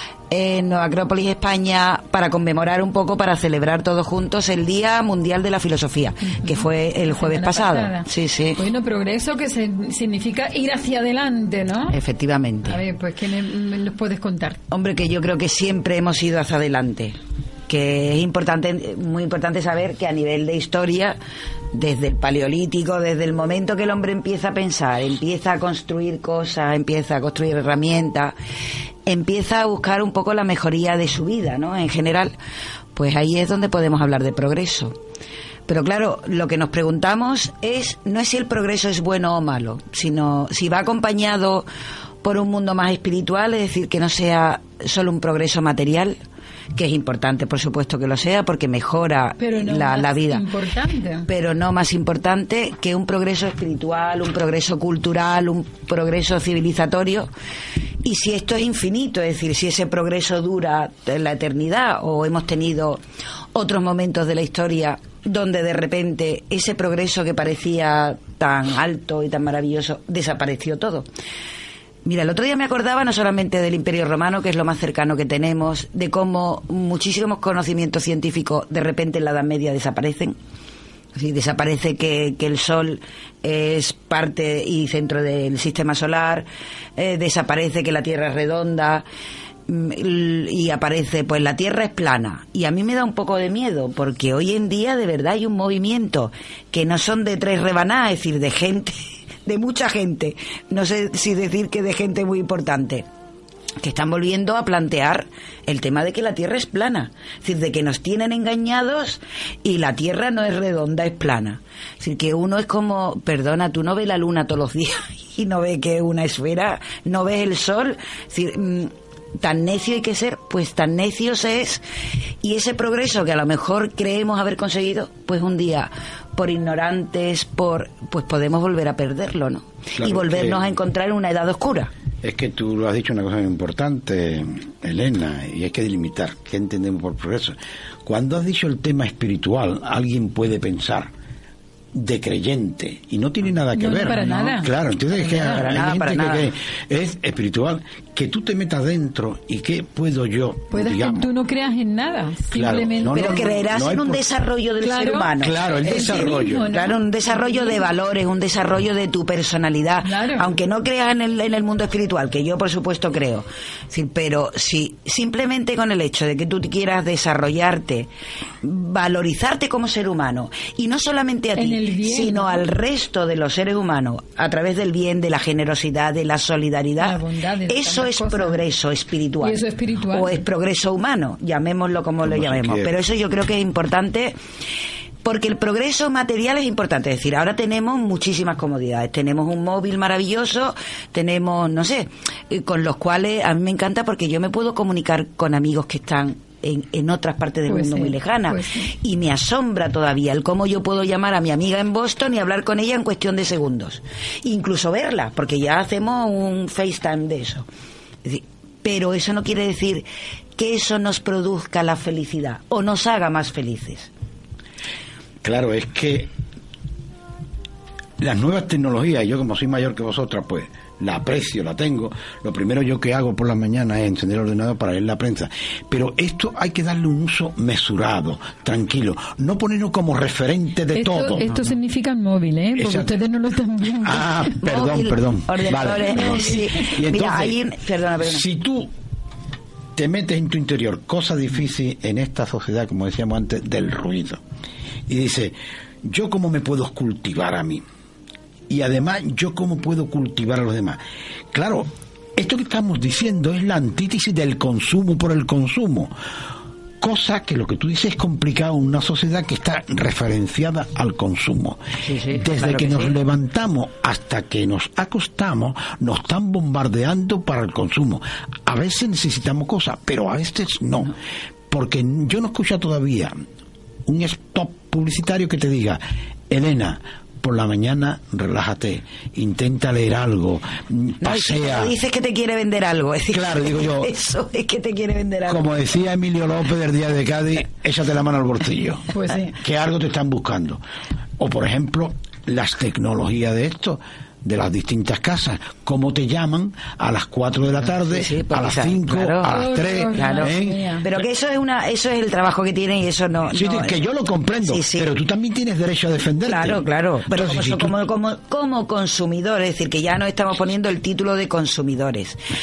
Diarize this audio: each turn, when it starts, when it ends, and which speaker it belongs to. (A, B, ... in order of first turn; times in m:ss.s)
0:00.3-0:08.6 A
0:06.4-0:12.0 B
0:11.9-0:12.8 A
0:12.6-0:14.6 B
0:14.7-0:17.2 A
0:17.7-0:21.2 A
0:21.7-0:28.3 A
0:29.0-0:32.3 A
0:32.9-0:35.0 A
0:35.7-0:41.6 A
0:42.2-0:46.2 A
0:46.7-0:50.4 A
0:49.4-0:51.3 B
0:51.2-0:57.3 A
0:58.0-1:03.0 A
1:03.5-1:11.1 A
1:12.0-1:20.3 A
1:21.1-1:29.0 A
1:29.7-1:43.0 A
1:43.8-2:01.8 A
2:02.4-2:11.9 A
2:10.0-2:10.6 C
2:12.2-2:21.1 C
2:21.9-2:31.3 C
2:23.7-2:25.6 B
2:25.4-2:26.5 A
2:30.7-2:33.5 B
2:32.5-2:34.2 C
2:33.1-2:48.1 A
2:34.8-2:35.3 B
2:35.4-2:36.7 C
2:35.8-2:37.8 B
2:40.0-2:40.5 B
2:48.6-3:04.3 A
2:51.6-2:52.6 B
2:57.0-2:58.6 B
2:59.4-3:00.3 B
3:02.2-3:02.9 C
3:05.2-3:27.6 A
3:17.7-3:18.9 B
3:28.2-3:30.0 A
3:30.6-3:34.1 A
3:35.4-3:36.3 C
3:38.2-3:51.5 C
3:50.9-3:54.3 B
3:51.5-3:51.7 A
3:52.7-3:53.2 C
3:54.0-3:57.6 C
3:54.6-3:58.4 A
3:56.2-3:56.6 B
3:58.2-3:58.9 C
4:00.0-4:04.4 C
4:05.1-4:07.8 C
4:08.7-4:11.0 C
4:11.5-4:16.1 C
4:17.0-4:31.1 C
4:22.0-4:23.2 A
4:31.7-4:33.3 C
4:34.0-4:41.9 C
4:41.2-4:45.7 A
4:43.3-4:44.1 C
4:45.5-4:50.8 C
4:49.1-4:49.6 B
4:51.4-5:00.9 C
4:57.9-5:04.0 A
4:59.5-5:01.0 B
5:03.5-5:08.0 C
5:04.6-5:05.1 A
5:06.4-5:12.4 A